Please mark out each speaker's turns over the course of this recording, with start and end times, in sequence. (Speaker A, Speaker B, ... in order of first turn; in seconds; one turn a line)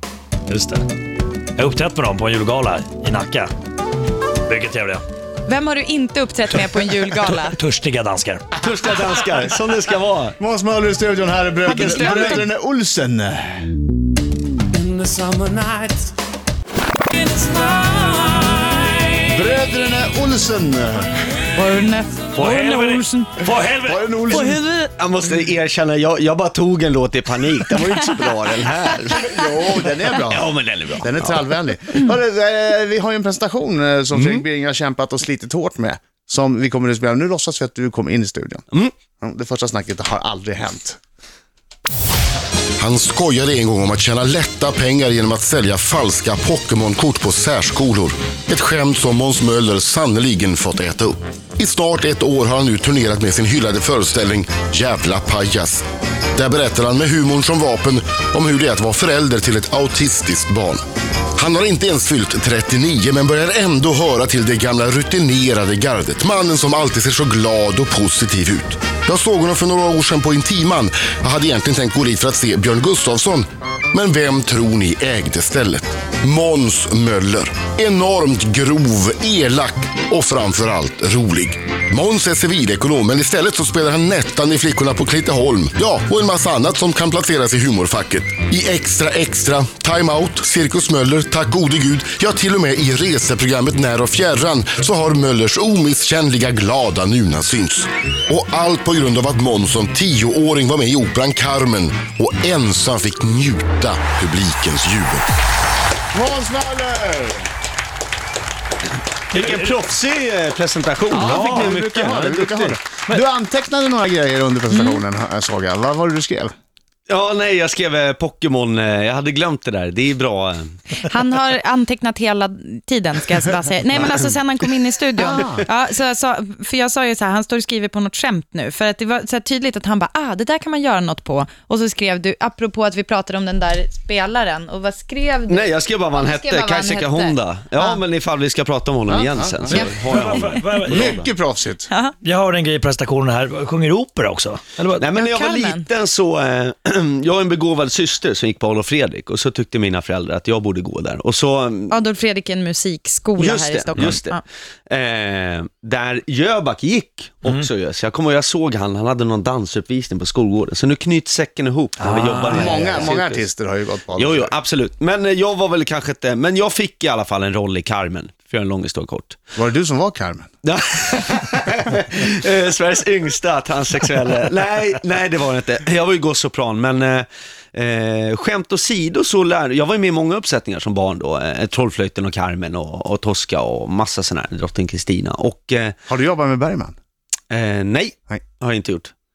Speaker A: 0.5-0.9
Speaker A: 1.6-3.5
Speaker A: 4.4-5.0
Speaker B: 5.5-7.6
Speaker A: 7.1-8.5
Speaker C: 8.6-10.4
Speaker D: 10.4-13.7
Speaker B: 11.7-12.5
Speaker D: 14.8-16.1
Speaker A: 17.6-18.7
Speaker D: 19.3-21.1
Speaker B: 21.5-23.4
Speaker A: 22.3-24.6
Speaker D: 23.8-24.6
Speaker B: 24.3-24.9
Speaker C: 24.9-29.4
Speaker D: 29.1-38.6
Speaker C: 30.1-31.5
Speaker C: 34.1-34.4
Speaker D: 39.2-41.0
Speaker E: 42.8-55.8
Speaker E: 56.3-60.8
Speaker E: 61.3-105.3
Speaker D: 106.1-107.5
Speaker C: 109.3-112.8
Speaker A: 109.3-109.7
Speaker D: 111.1-116.5
Speaker A: 111.1-111.8
Speaker B: 114.7-115.0
Speaker C: 117.1-120.8
Speaker B: 121.0-138.0
Speaker D: 125.2-125.7
Speaker C: 135.5-141.2
Speaker D: 139.1-139.8
Speaker A: 139.7-141.2
Speaker B: 139.7-140.6
Speaker D: 140.8-141.9
Speaker B: 141.9-142.1
Speaker A: 142.2-145.0
Speaker C: 145.0-152.0
Speaker B: 145.1-145.8
Speaker B: 151.9-154.4
Speaker C: 153.4-163.4
Speaker A: 162.0-163.1
Speaker D: 162.5-164.5
Speaker C: 164.2-169.4
Speaker D: 169.5-170.5
Speaker C: 170.6-186.0
Speaker D: 186.1-186.9
Speaker C: 187.5-189.1